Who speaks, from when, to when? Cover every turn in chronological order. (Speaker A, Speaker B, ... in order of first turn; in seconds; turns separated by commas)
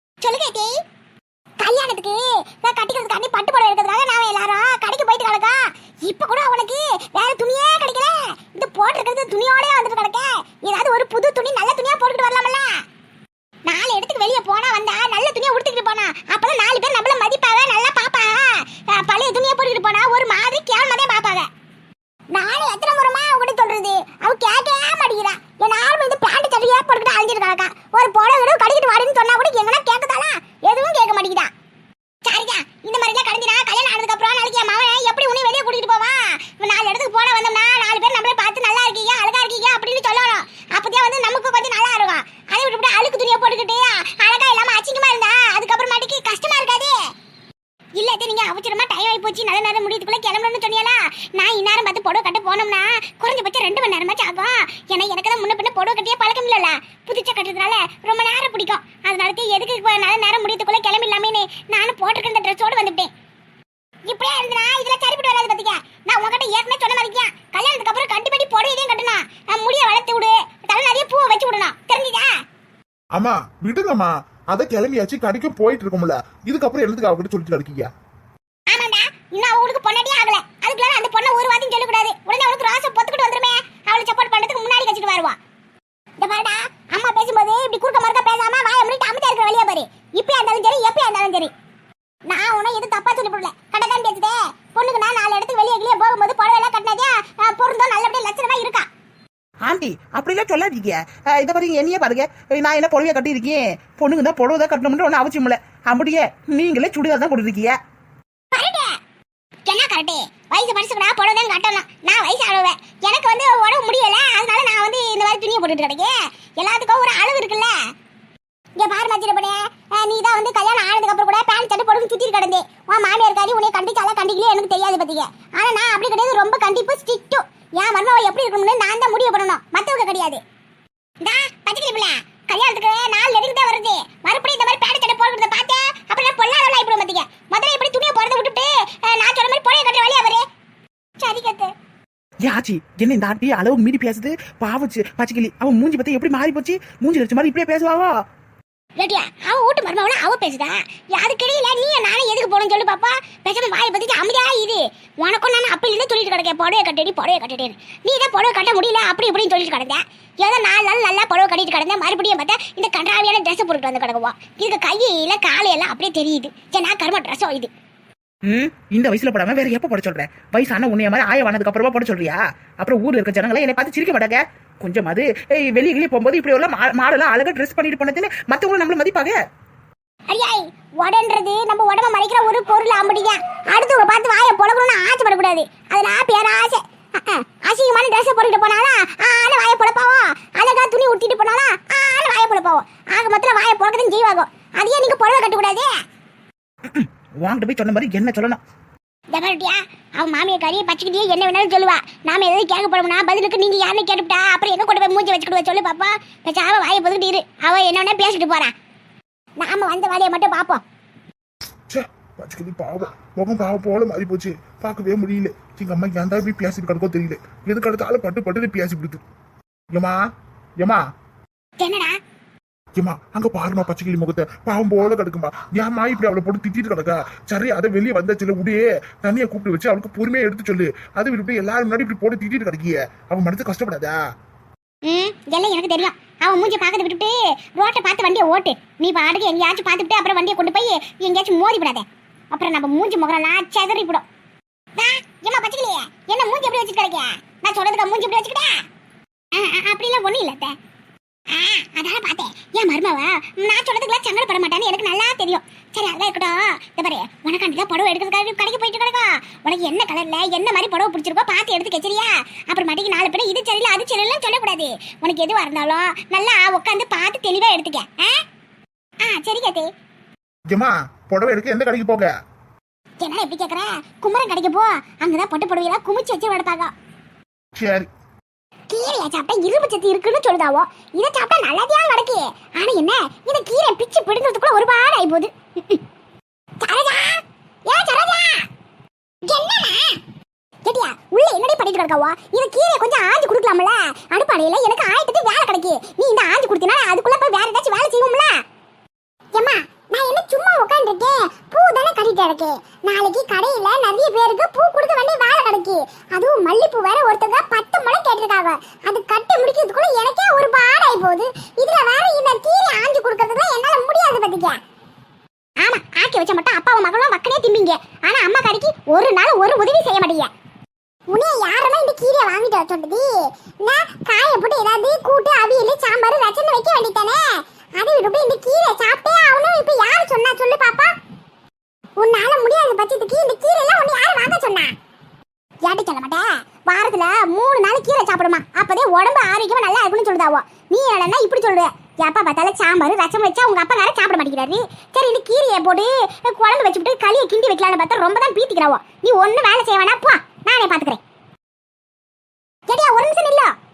Speaker A: 0.2-0.7, Speaker A: 1.6-12.7, Speaker A: 13.7-21.5, Speaker A: 22.3-31.5, Speaker A: 32.2-47.0, Speaker A: 48.0-63.1, Speaker A: 64.0-72.3, Speaker B: 73.1-77.9, Speaker A: 78.7-85.4, Speaker A: 86.2-91.5, Speaker A: 92.3-98.8, Speaker C: 99.6-107.8, Speaker A: 108.5-109.0, Speaker A: 109.7-117.7, Speaker A: 118.8-130.4, Speaker A: 131.2-140.4, Speaker A: 141.2-141.7, Speaker C: 142.4-148.1, Speaker A: 149.0-167.7, Speaker C: 168.4-179.4, Speaker A: 180.3-195.9, Speaker C: 196.9-198.6, Speaker A: 199.3-208.7, Speaker A: 209.6-210.8, Speaker B: 211.9-219.2, Speaker B: 219.9-220.2, Speaker A: 221.8-222.2, Speaker B: 222.9-234.2, Speaker A: 235.1-244.2, Speaker A: 244.9-248.8, Speaker A: 249.5-250.7, Speaker A: 251.5-268.4, Speaker A: 269.2-269.9, Speaker B: 270.7-272.3, Speaker A: 273.2-276.9, Speaker B: 277.7-278.1, Speaker A: 278.9-286.0, Speaker A: 286.8-288.7, Speaker A: 289.4-290.2, Speaker A: 290.8-298.5, Speaker A: 299.5-314.8, Speaker A: 315.8-320.5, Speaker A: 321.3-331.1, Speaker A: 332.2-334.9, Speaker A: 335.8-351.2, Speaker A: 352.9-353.7